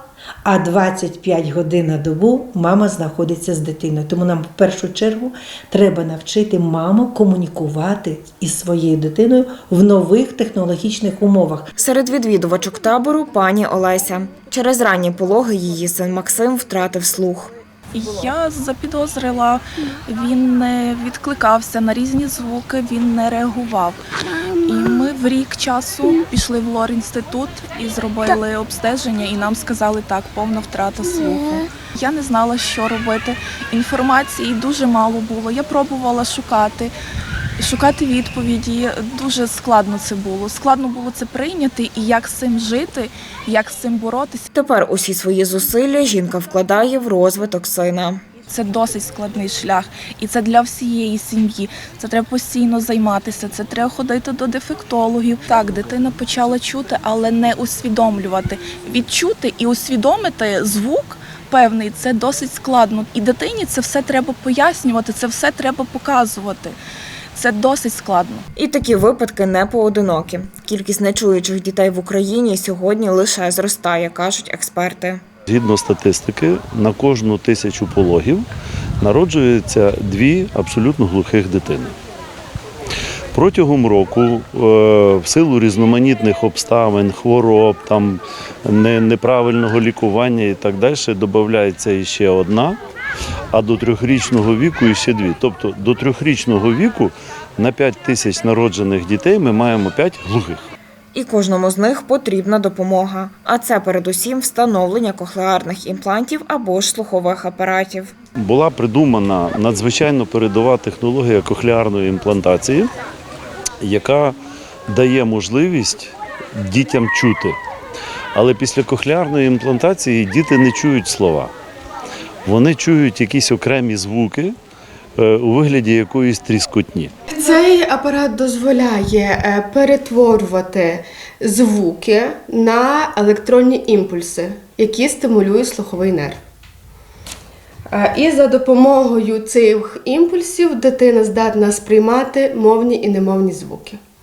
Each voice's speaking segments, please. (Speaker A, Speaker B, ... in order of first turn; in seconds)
Speaker A: 0.4-11.7
Speaker B: 11.8-17.5, 44.5-48.2, 68.5-75.2, 101.1-108.1
Speaker C: 17.9-24.0, 24.6-36.9, 37.6-44.5, 48.5-66.8, 67.3-68.5
Speaker D: 75.5-78.5, 79.0-82.0, 83.3-92.8, 93.5-100.6, 108.3-112.9, 113.8-114.4, 114.9-117.6, 118.3-121.5, 122.4-124.5, 125.2-127.1
Speaker E: 127.3-136.4, 137.9-144.0